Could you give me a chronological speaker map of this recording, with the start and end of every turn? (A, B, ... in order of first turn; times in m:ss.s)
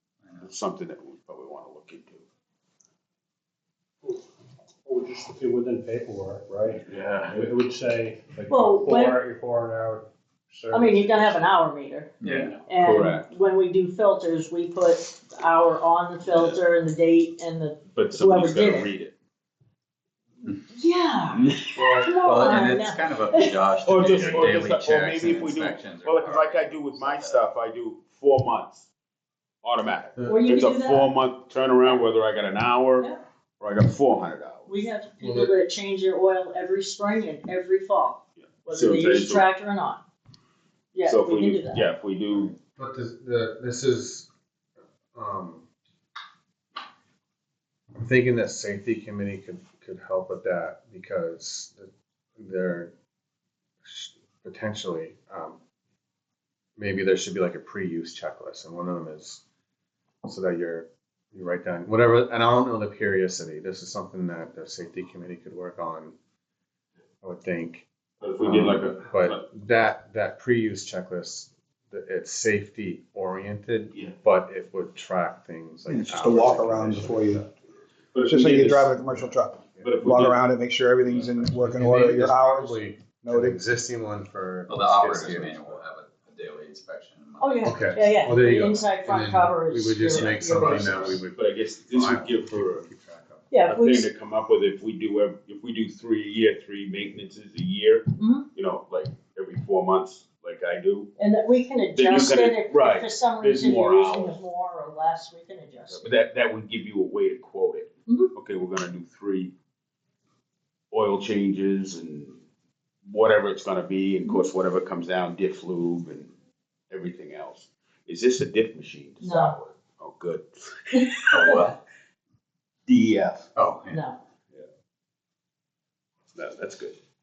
0:00.2-0:00.5 A
0:00.4-0:02.2 B
0:04.8-0:11.6 C
0:06.9-0:07.4 B
0:08.5-0:09.2 D
0:10.7-0:12.1 D
0:12.2-0:12.6 A
0:12.2-0:12.5 C
0:12.6-0:18.9 D
0:12.8-0:13.2 B
0:17.9-0:19.2 B
0:20.7-0:23.5 D
0:21.3-0:22.6 B
0:22.2-0:27.4 A
0:23.8-0:28.9 B
0:29.6-0:33.1 B
0:30.2-0:31.1 D
0:33.6-0:34.7 B
0:34.6-0:40.0 D
0:35.2-0:35.5 E
0:38.4-0:39.5 B
0:40.9-0:41.9 D
0:41.0-0:42.6 B
0:42.7-0:44.3 E
0:45.1-0:45.6 E
0:48.0-0:52.9 E
0:53.8-0:55.6 E
0:56.8-0:59.4 E
1:00.2-1:06.1 E
1:07.2-1:07.9 E
1:08.2-1:09.4 B
1:08.4-1:17.6 E
1:15.9-1:17.4 F
1:18.1-1:19.0 B
1:18.2-1:23.6 F
1:19.0-1:19.9 E
1:19.8-1:20.5 B
1:21.6-1:25.8 E
1:24.7-1:28.2 A
1:24.8-1:25.3 B
1:27.4-1:31.2 D
1:27.6-1:33.5 E
1:30.1-1:31.2 A
1:31.3-1:32.8 B
1:33.5-1:34.1 D
1:33.7-1:41.1 B
1:38.2-1:38.4 D
1:41.2-1:46.0 D
1:41.9-1:44.4 B
1:45.9-1:49.5 B
1:48.1-1:48.3 D
1:50.9-1:52.4 B
1:53.0-1:56.3 B
1:56.9-2:01.0 B
1:59.2-1:59.6 D
2:00.9-2:01.7 D
2:01.3-2:01.7 A
2:02.9-2:03.5 B
2:03.5-2:04.0 A
2:03.9-2:04.2 D
2:06.3-2:07.0 B